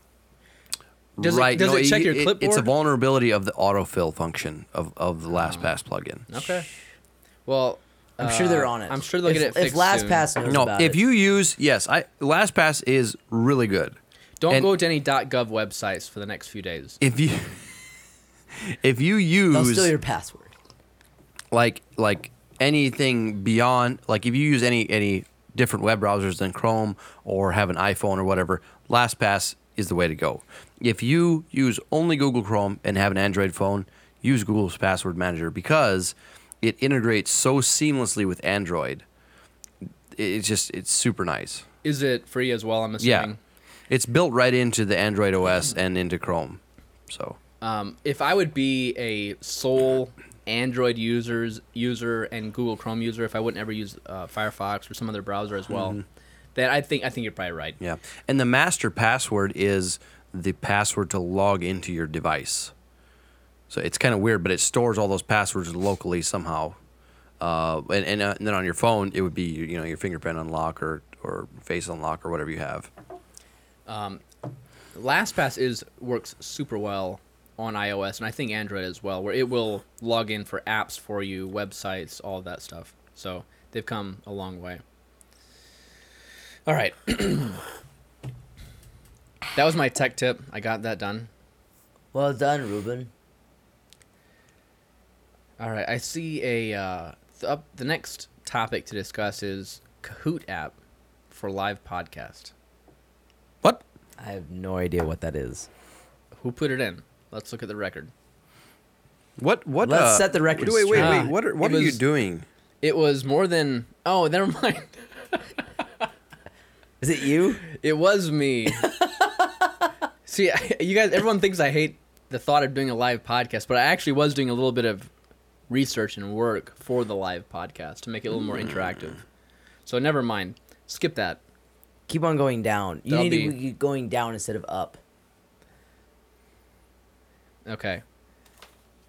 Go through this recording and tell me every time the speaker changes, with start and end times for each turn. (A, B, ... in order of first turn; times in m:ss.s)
0:01.2-0:06.3 A
0:01.2-0:02.7 B
0:05.4-0:05.7 B
0:06.3-0:06.7 B
0:07.5-0:10.3 B
0:08.2-0:11.0 C
0:10.5-0:14.0 A
0:14.4-0:17.0 B
0:17.0-0:17.7 A
0:18.6-0:19.9 A
0:19.5-0:20.5 C
0:21.5-0:39.0 A
0:40.2-0:41.6 A
0:41.8-0:43.4 B
0:43.0-0:43.3 A
0:43.9-0:47.4 A
0:47.6-0:56.0 B
0:55.7-0:56.0 A
0:56.6-0:57.8 B
0:57.8-1:02.7 A
1:03.7-1:06.8 A
1:07.4-1:12.9 A
1:13.9-1:14.2 B
1:14.9-1:24.8 B
1:26.7-1:27.6 B
1:29.5-1:31.3 B
1:32.1-1:33.1 C
1:35.6-1:40.8 B
1:41.3-1:42.5 B
1:44.2-1:45.7 C
1:46.4-1:48.1 B
1:49.4-1:52.4 A
1:49.8-1:51.3 C
1:51.0-1:52.0 B
1:52.8-1:55.3 B
1:57.0-1:57.6 C
1:57.7-1:59.0 B
2:00.3-2:05.1 B
2:05.7-2:09.2 B
2:09.9-2:11.4 B
2:12.1-2:15.0 C
2:13.1-2:13.6 B
2:17.7-2:18.0 B